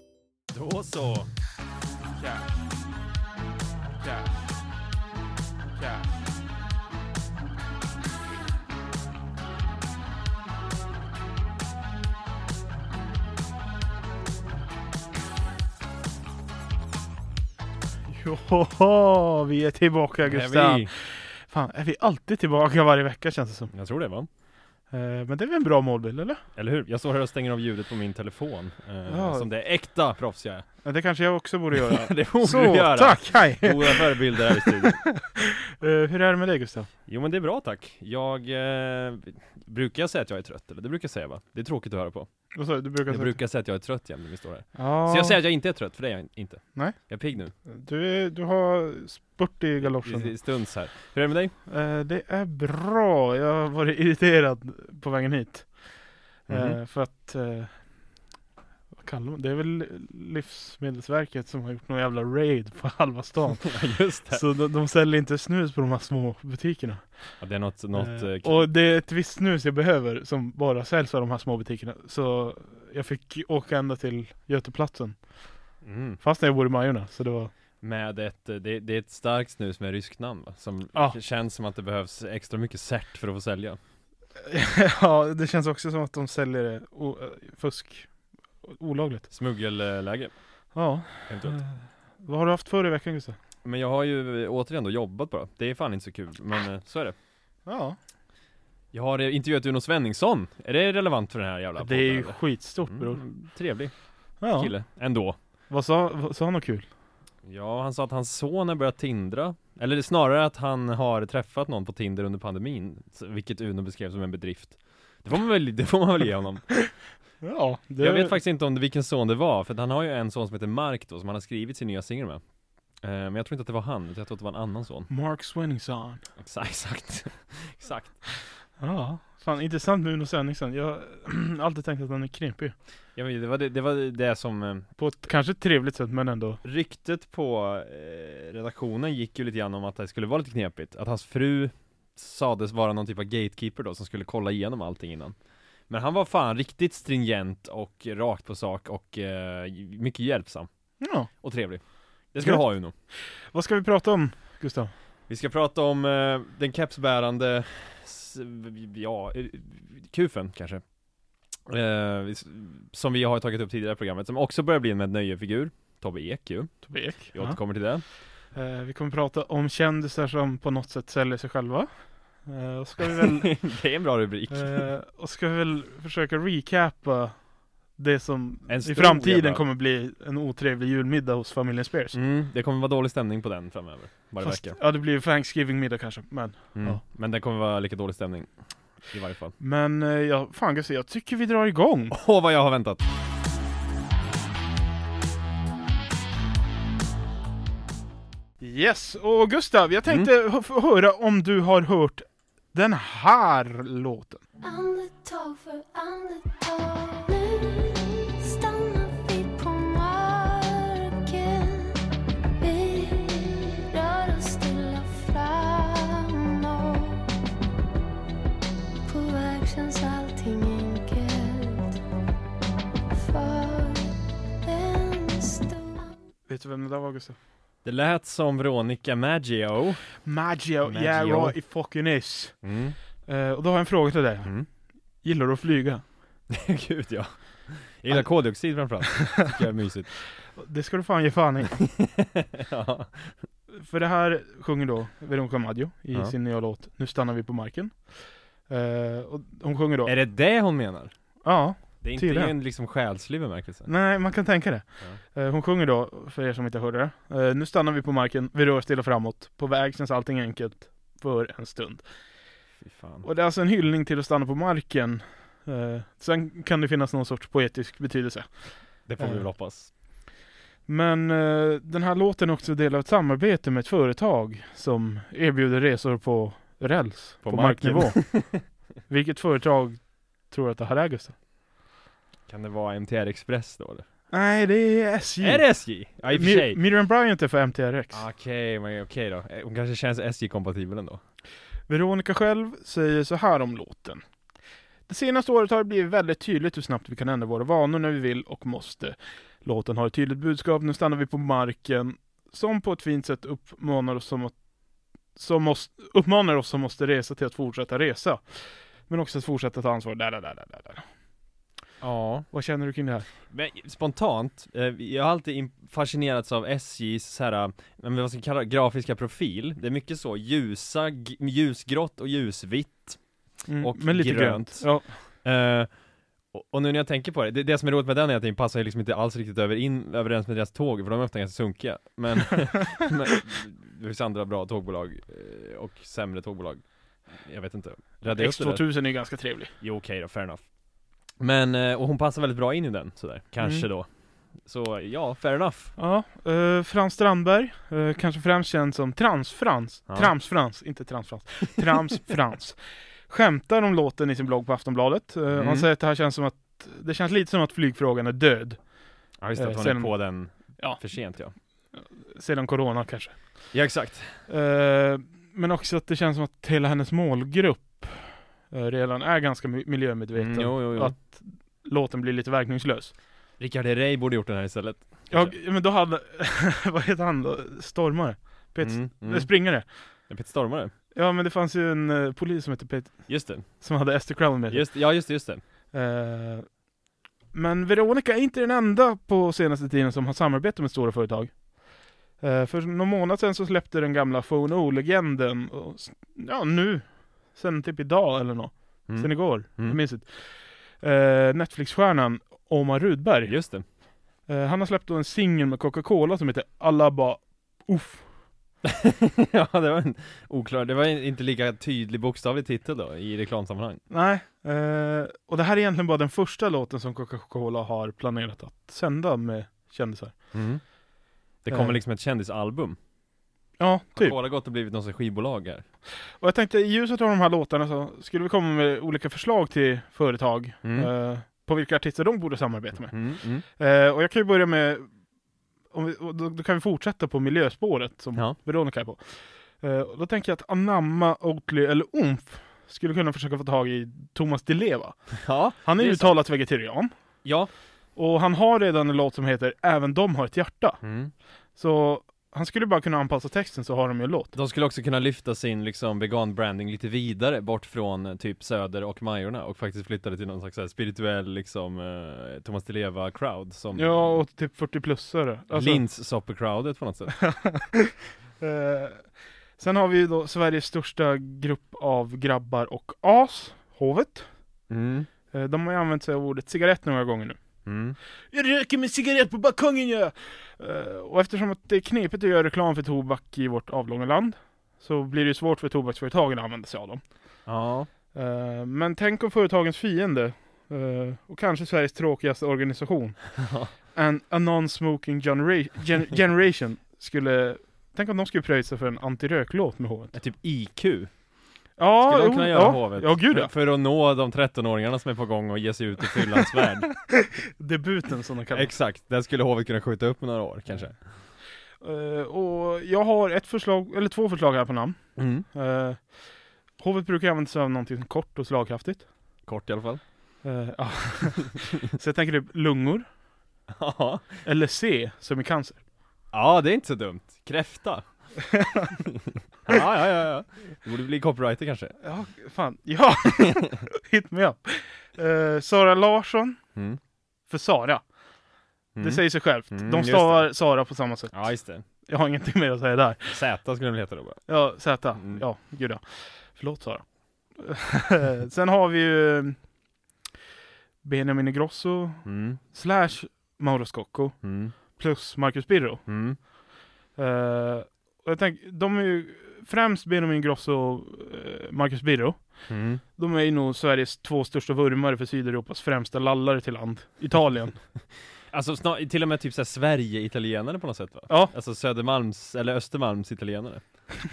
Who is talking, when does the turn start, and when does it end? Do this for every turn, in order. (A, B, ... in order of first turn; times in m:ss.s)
0:00.5-0:01.3 A
0:04.0-0:04.3 B
0:05.8-0:06.0 B
0:18.1-0:23.7 B
0:20.2-0:20.9 A
0:23.7-0:24.3 A
0:24.9-0:26.4 B
0:26.6-0:30.8 A
0:29.1-0:29.5 B
0:30.8-0:36.9 B
0:31.8-0:35.1 A
0:37.1-0:47.5 A
0:42.5-0:43.4 B
0:44.7-0:45.4 B
0:47.6-0:50.4 B
0:49.8-0:51.5 A
0:51.7-0:58.3 B
0:56.5-0:56.8 A
0:58.9-1:15.4 B
1:03.6-1:04.4 A
1:07.4-1:08.7 A
1:15.8-1:16.2 A
1:16.2-1:17.5 B
1:17.8-1:23.8 A
1:20.9-1:21.2 B
1:24.4-1:29.3 B
1:29.3-1:30.3 A
1:30.7-1:33.4 B
1:31.2-1:31.6 A
1:33.6-1:37.1 A
1:37.6-1:38.0 B
1:38.9-1:45.4 A
1:41.8-1:43.2 B
1:44.4-1:44.7 B
1:45.7-1:46.9 B
1:47.4-1:56.8 A
1:57.4-1:58.4 B
1:58.0-2:02.4 A
2:03.0-2:05.1 A
2:05.1-2:06.2 B
2:06.4-2:08.2 A
2:08.8-2:12.7 B
2:13.2-2:14.9 A
2:15.0-2:16.6 B
2:16.6-2:25.4 A
2:25.9-2:30.7 A
2:31.0-2:31.3 B
2:31.2-2:32.9 A
2:32.4-2:34.9 B
2:35.3-2:40.8 A
2:41.6-2:48.0 A
2:46.8-2:53.9 B
2:53.1-2:54.9 A
2:54.5-3:02.2 B
2:58.7-2:59.6 A
3:02.1-3:04.8 A
3:04.4-3:07.0 B
3:06.7-3:09.6 A
3:09.6-3:12.1 B
3:12.1-3:13.0 A
3:18.6-3:24.4 B
3:24.6-3:32.0 C
3:32.6-3:37.3 C
3:39.0-3:42.0 C
3:43.1-3:46.1 C
3:46.5-3:47.4 B
3:47.8-3:50.2 A
3:50.2-3:52.6 B
3:50.8-3:51.6 A
3:52.6-3:53.0 A
3:53.2-3:56.1 B
3:56.5-4:00.2 A
3:58.1-3:59.0 B
4:00.5-4:01.9 B
4:02.0-4:03.3 A
4:03.7-4:10.1 B
4:10.0-4:11.1 A
4:11.4-4:12.5 B
4:11.8-4:13.9 A
4:13.9-4:22.1 B
4:22.8-4:23.2 A
4:23.2-4:29.5 B
4:29.0-4:29.9 A
4:30.9-4:41.4 B
4:37.4-4:38.6 A
4:42.5-4:44.0 A
4:44.3-4:48.2 B
4:45.4-4:46.8 A
4:48.1-4:51.2 A
4:51.9-4:54.2 B
4:55.1-5:04.6 B
5:05.3-5:11.0 B
5:12.0-5:12.5 A
5:12.5-5:13.3 B
5:13.5-5:39.0 A
5:23.7-5:25.2 B
5:38.2-5:39.7 B
5:39.8-5:40.7 A
5:41.3-5:45.9 A
5:46.0-6:03.8 B
5:55.5-5:55.9 A
5:59.4-6:01.5 A
6:03.7-6:04.4 A
6:04.5-6:13.1 B
6:10.3-6:11.2 A
6:13.6-6:15.6 A
6:15.3-6:19.9 B
6:18.8-6:20.9 A
6:21.1-6:25.1 B
6:23.3-6:23.8 A
6:24.7-6:25.6 A
6:25.9-6:26.8 B
6:27.5-6:31.7 B
6:32.4-6:43.6 B
6:39.1-6:40.0 A
6:43.4-6:43.8 A
6:44.4-6:48.3 B
6:48.8-6:54.0 A
6:54.1-7:00.5 B
7:00.5-7:01.0 A
7:01.5-7:03.0 A
7:01.7-7:02.0 B
7:03.8-7:04.4 B
7:04.2-7:05.8 A
7:06.1-7:15.1 B
7:10.8-7:11.1 A
7:13.1-7:13.6 A
7:15.9-7:27.1 B
7:25.4-7:26.4 A
7:27.4-7:27.7 A
7:28.2-7:31.0 B
7:31.0-7:31.3 A
7:31.7-7:34.6 B
7:34.5-7:44.4 A
7:43.9-7:46.0 B
7:45.7-7:47.4 A
7:47.4-7:54.5 B
7:54.9-7:55.3 A
7:55.5-7:57.6 B
7:57.8-7:58.2 A
7:58.5-8:07.2 B
8:07.6-8:08.1 A
8:08.3-8:20.4 B
8:13.6-8:13.9 A
8:20.3-8:21.4 A
8:22.0-8:23.7 B
8:22.2-8:27.3 A
8:27.3-8:28.9 B
8:28.7-8:31.2 A
8:32.0-8:36.4 B
8:35.4-8:35.6 A
8:37.0-8:39.3 B
8:39.6-8:40.2 A
8:40.6-8:43.3 B
8:44.0-8:44.6 A
8:44.6-8:46.0 B
8:46.5-8:48.5 A
8:49.8-8:52.2 A
8:52.2-8:56.8 B
8:56.9-8:57.2 A
8:57.7-8:58.3 B
8:59.1-9:00.7 A
8:59.2-9:03.6 B
9:01.5-9:02.0 A
9:03.5-9:04.7 A
9:04.7-9:09.8 B
9:05.4-9:05.6 A
9:11.2-9:16.6 B
9:12.4-9:12.8 A
9:14.6-9:14.9 A
9:16.3-9:16.6 A
9:17.3-9:28.0 B
9:22.9-9:23.2 A
9:28.7-9:34.3 A
9:31.5-9:31.7 B